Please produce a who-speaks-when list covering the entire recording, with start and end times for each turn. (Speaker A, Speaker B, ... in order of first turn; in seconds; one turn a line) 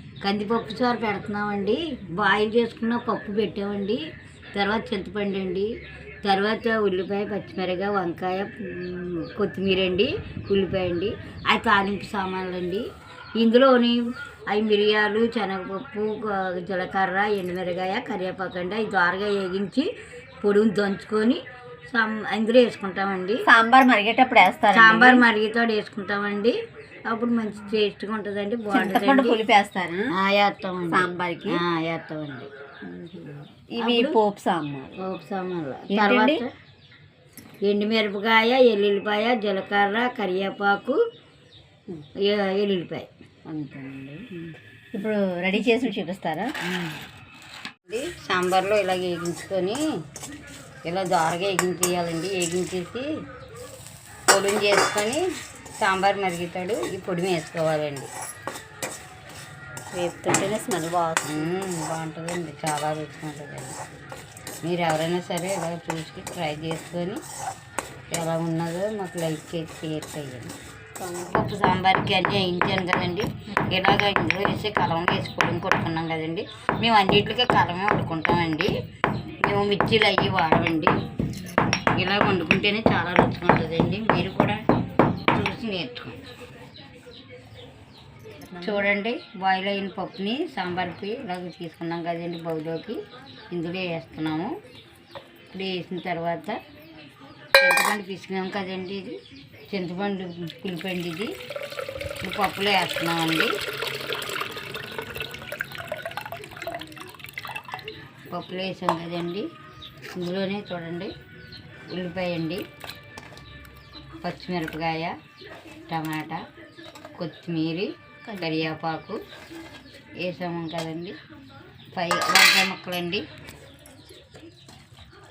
Speaker A: 0.2-19.9
Speaker A: 20.4-23.4
Speaker B: 23.4-25.2
Speaker A: 24.7-29.4
Speaker B: 28.7-30.1
Speaker A: 30.1-32.5
Speaker B: 30.9-31.6
Speaker B: 32.8-35.0
Speaker A: 33.8-34.1
Speaker A: 35.0-36.5
Speaker B: 35.9-36.4
Speaker A: 37.6-41.0
Speaker A: 42.2-43.1
Speaker B: 43.5-44.3
Speaker B: 44.9-46.5
Speaker A: 46.7-47.0
Speaker A: 47.9-49.8
Speaker A: 50.9-53.1
Speaker A: 54.3-55.2
Speaker A: 55.8-58.1
Speaker B: 59.9-61.4
Speaker A: 61.2-63.8
Speaker A: 64.6-67.2
Speaker A: 68.1-70.5
Speaker B: 71.0-71.4
Speaker A: 71.1-78.7
Speaker A: 79.4-80.9
Speaker A: 81.9-84.6
Speaker A: 85.3-86.2
Speaker B: 88.5-88.8
Speaker A: 88.6-94.5
Speaker A: 95.5-96.6
Speaker A: 97.6-99.2
Speaker A: 99.7-101.3
Speaker A: 102.2-103.5
Speaker A: 108.3-109.5
Speaker A: 110.1-111.1
Speaker A: 111.9-112.6
Speaker A: 114.2-115.2
Speaker A: 115.9-116.4
Speaker A: 117.2-119.2
Speaker B: 118.3-118.7
Speaker A: 120.2-121.2
Speaker A: 122.0-123.2